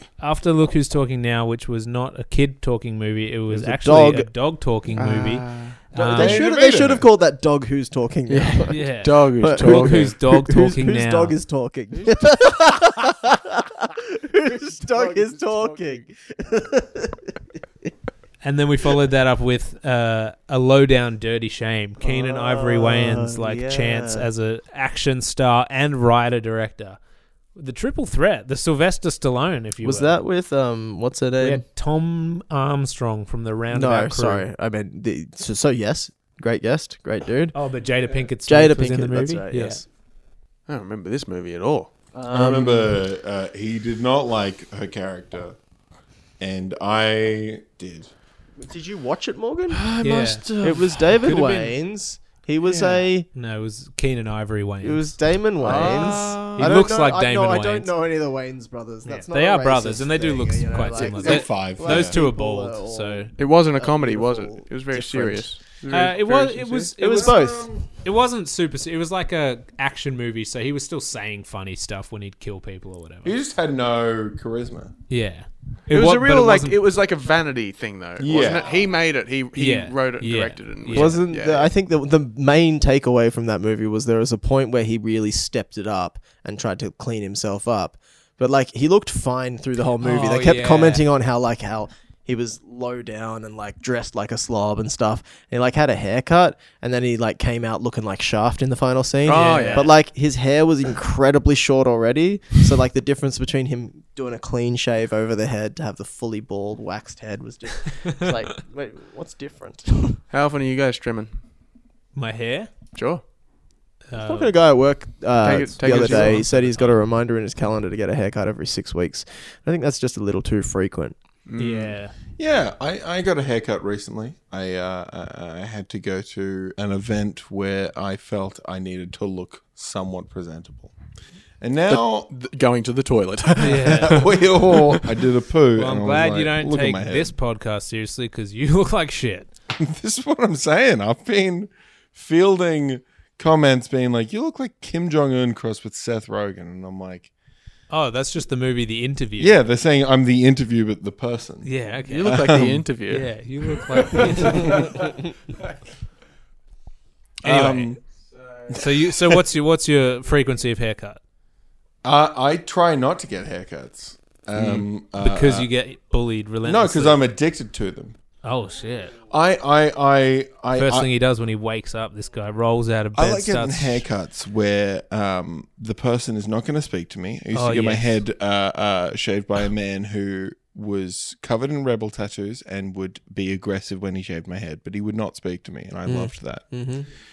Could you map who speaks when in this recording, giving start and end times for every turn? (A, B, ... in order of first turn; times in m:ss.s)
0:00.2-0:06.4 A
0:03.5-0:04.3 B
0:05.9-0:17.3 B
0:06.1-0:07.1 C
0:08.3-0:10.2 D
0:08.7-0:11.4 A
0:11.9-0:12.4 D
0:14.5-0:16.0 D
0:18.4-0:27.0 A
0:22.0-0:24.3 B
0:27.5-0:30.2 A
0:29.8-0:31.6 B
0:31.4-0:34.4 A
0:33.7-0:37.6 B
0:37.5-0:39.8 A
0:38.4-0:39.9 B
0:40.7-0:41.9 D
0:42.1-0:43.0 B
0:42.3-0:45.6 C
0:46.4-0:48.1 C
0:48.6-0:53.3 B
0:49.7-0:50.8 D
0:50.0-0:51.7 A
0:53.3-0:57.9 A
0:54.8-1:05.5 B
0:55.6-0:56.8 D
0:59.0-1:03.3 A
1:01.1-1:02.2 C
1:03.4-1:06.9 D
1:05.9-1:13.3 A
1:07.0-1:07.7 B
1:07.0-1:07.8 C
1:13.2-1:14.9 C
1:15.1-1:16.8 A
1:15.9-1:21.7 D
1:18.2-1:18.8 C
1:19.5-1:21.2 A
1:20.9-1:50.2 B
1:30.0-1:31.0 A
1:39.2-1:39.9 D
1:39.3-1:39.9 A
1:50.3-1:51.3 D
1:52.1-1:52.7 A
1:52.9-1:53.2 D
1:54.1-1:54.5 A
1:54.1-2:01.2 B
1:55.4-1:56.5 D
1:55.8-1:56.9 A
2:01.4-2:02.0 D
2:01.6-2:02.1 A
2:02.4-2:10.9 C
2:11.6-2:12.3 C
2:11.9-2:15.1 D
2:13.6-2:14.2 A
2:13.6-2:17.3 C
2:15.8-2:19.5 A
2:19.7-2:27.3 C
2:27.9-2:29.6 A
2:29.4-2:32.8 C
2:31.6-2:32.5 A
2:32.1-2:33.3 D
2:33.1-2:35.0 A
2:34.1-2:34.7 C
2:37.4-2:38.0 C
2:37.4-2:38.0 A
2:38.7-2:39.4 C
2:38.7-2:41.2 A
2:42.0-2:45.7 C
2:44.6-2:44.8 D
2:45.2-2:47.2 A
2:46.6-2:48.2 C
2:48.4-2:49.2 A
2:49.3-2:51.1 C
2:50.7-2:54.0 A
2:53.1-3:06.7 C
2:57.5-2:58.2 A
3:06.0-3:07.1 B